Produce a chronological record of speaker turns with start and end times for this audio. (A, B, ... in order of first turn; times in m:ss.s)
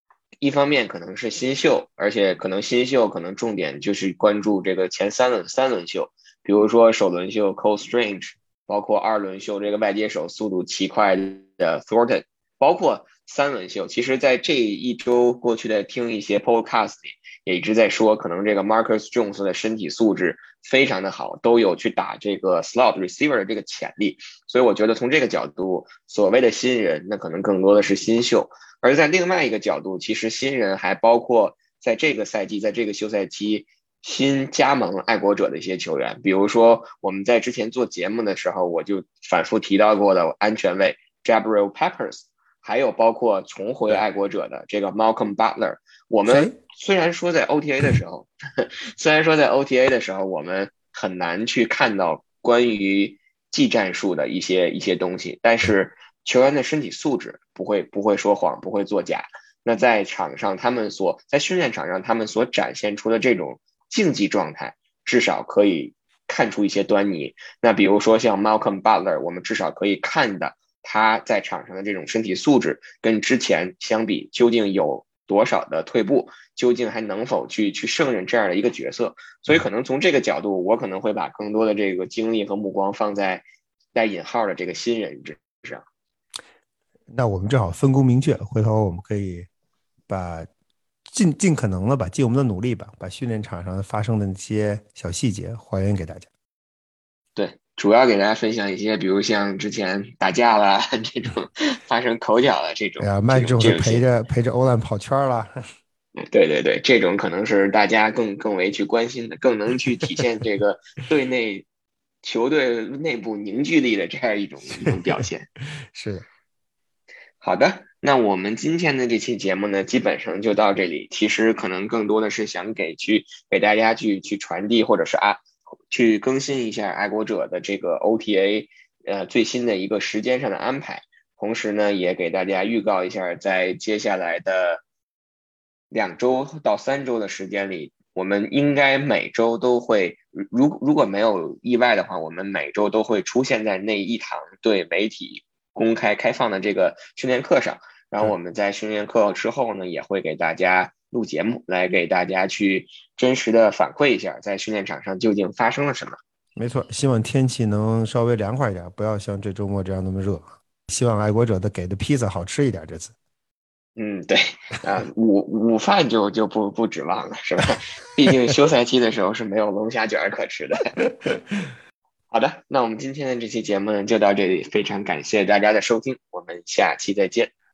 0:00.4-1:25.8 A
0:46.3-0:46.5 B
1:27.1-1:29.5 B
1:30.1-1:30.5 B
1:31.1-1:36.3 B
1:37.4-1:44.0 A
1:43.0-1:45.6 B
1:46.2-1:51.7 A
1:52.2-1:55.5 A
1:55.8-1:56.3 B
1:57.4-2:14.8 A
2:15.9-2:36.2 A
2:36.6-2:43.1 B
2:44.0-2:51.0 A
2:52.3-2:57.5 A